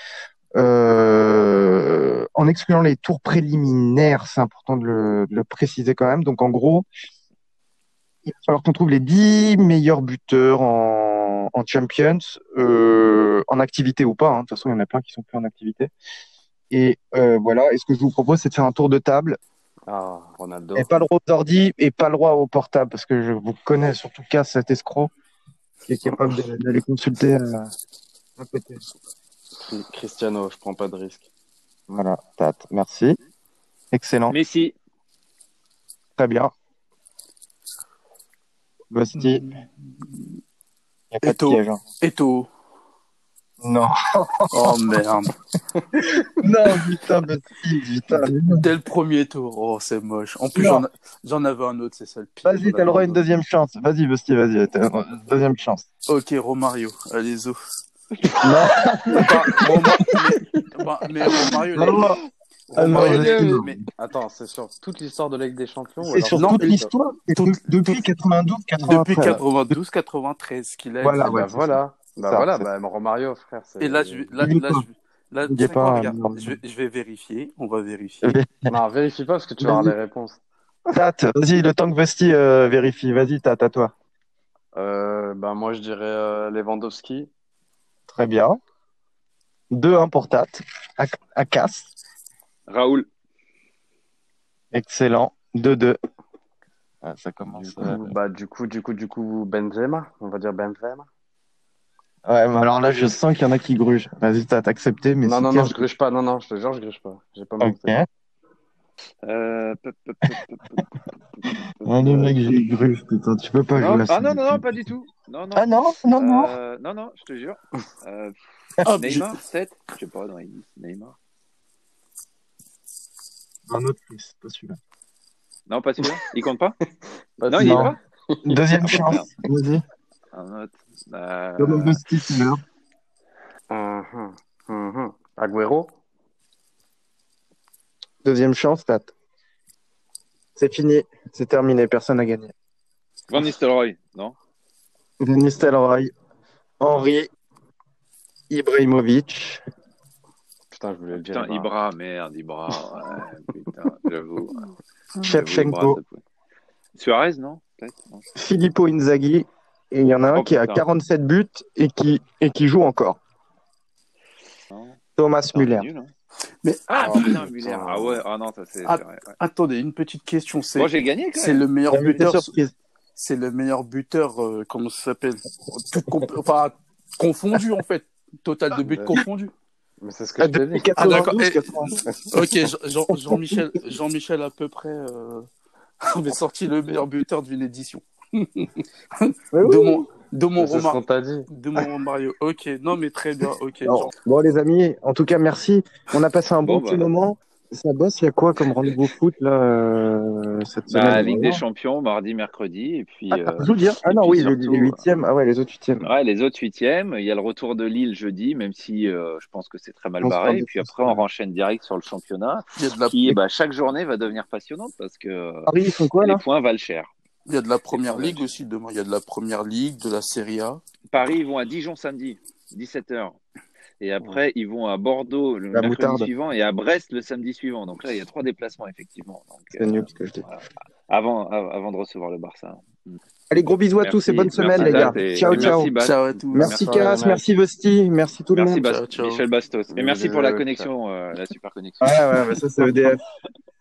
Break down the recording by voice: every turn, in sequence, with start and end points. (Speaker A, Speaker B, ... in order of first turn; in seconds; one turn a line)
Speaker A: 0.6-6.9
Speaker A: 8.2-15.9
Speaker A: 16.7-19.4
Speaker B: 19.9-21.0
Speaker A: 20.8-25.1
Speaker A: 25.9-27.7
Speaker A: 28.4-28.8
Speaker B: 29.6-31.3
Speaker A: 31.9-33.2
Speaker A: 33.9-34.4
Speaker C: 34.3-34.7
Speaker A: 36.2-36.5
Speaker A: 38.9-39.5
Speaker D: 39.2-40.4
Speaker A: 41.1-41.8
Speaker D: 41.2-42.5
Speaker A: 43.6-44.8
Speaker D: 44.5-45.3
Speaker A: 46.2-48.7
Speaker D: 48.5-53.2
Speaker A: 50.5-50.9
Speaker A: 52.5-55.9
Speaker D: 56.1-57.6
Speaker A: 58.4-60.0
Speaker D: 59.1-62.1
Speaker B: 59.2-60.6
Speaker A: 61.7-62.2
Speaker A: 62.7-63.9
Speaker D: 62.7-63.8
Speaker B: 62.8-66.9
Speaker A: 66.0-69.4
Speaker D: 66.3-68.1
Speaker D: 68.8-71.4
Speaker A: 71.0-72.7
Speaker B: 71.2-74.3
Speaker D: 73.8-78.4
Speaker A: 74.4-74.8
Speaker A: 75.5-76.6
Speaker A: 78.2-78.7
Speaker B: 78.7-80.4
Speaker A: 79.6-80.0
Speaker A: 80.9-83.9
Speaker B: 84.7-87.3
Speaker A: 88.1-88.6
Speaker A: 89.7-91.9
Speaker C: 92.7-93.1
Speaker A: 94.7-96.0
Speaker A: 97.0-98.1
Speaker B: 97.6-101.1
Speaker A: 102.3-105.9
Speaker B: 105.2-108.0
Speaker A: 107.6-108.1
Speaker C: 109.2-110.9
Speaker B: 111.8-112.4
Speaker A: 111.8-114.9
Speaker C: 113.8-121.2
Speaker A: 115.6-116.5
Speaker D: 118.9-119.3
Speaker A: 123.7-124.8
Speaker C: 125.7-126.8
Speaker B: 127.4-128.4
Speaker C: 127.5-128.0
Speaker A: 127.6-129.8
Speaker C: 128.8-129.3
Speaker C: 130.3-132.0
Speaker A: 131.6-132.6
Speaker B: 133.7-136.0
Speaker A: 138.2-139.1
Speaker A: 140.6-142.5
Speaker C: 143.3-144.4
Speaker A: 145.2-146.1
Speaker A: 146.8-147.3
Speaker A: 148.5-149.6
Speaker B: 150.7-151.7
Speaker C: 151.1-156.2
Speaker A: 155.2-156.0
Speaker C: 157.0-158.2
Speaker A: 158.3-163.2
Speaker C: 160.3-160.8
Speaker C: 164.7-165.0
Speaker A: 165.2-165.9
Speaker C: 165.5-166.1
Speaker D: 166.6-167.4
Speaker C: 166.9-169.3
Speaker B: 167.0-168.2
Speaker D: 168.9-172.5
Speaker C: 170.8-171.7
Speaker A: 171.9-172.7
Speaker D: 173.2-179.5
Speaker B: 178.8-179.2
Speaker B: 180.0-181.3
Speaker A: 180.4-182.7
Speaker D: 181.0-181.7
Speaker D: 182.3-185.5
Speaker A: 183.2-183.6
Speaker D: 186.0-191.0
Speaker A: 189.5-190.1
Speaker B: 190.6-191.5
Speaker D: 191.5-194.1
Speaker A: 193.8-201.6
Speaker C: 196.6-197.1
Speaker C: 200.9-205.0
Speaker A: 203.3-206.1
Speaker C: 206.0-217.1
Speaker A: 210.2-211.2
Speaker D: 212.8-213.4
Speaker A: 215.7-216.4
Speaker D: 217.5-220.8
Speaker C: 217.9-218.5
Speaker C: 221.1-223.4
Speaker C: 224.0-230.6
Speaker A: 225.7-226.3
Speaker A: 229.7-230.5
Speaker C: 231.1-233.2
Speaker A: 233.5-235.9
Speaker C: 234.0-237.3
Speaker B: 234.8-235.2
Speaker D: 235.4-237.4
Speaker A: 236.5-238.8
Speaker B: 236.9-237.4
Speaker C: 238.5-242.2
Speaker D: 238.8-239.4
Speaker B: 239.9-240.9
Speaker A: 242.0-243.2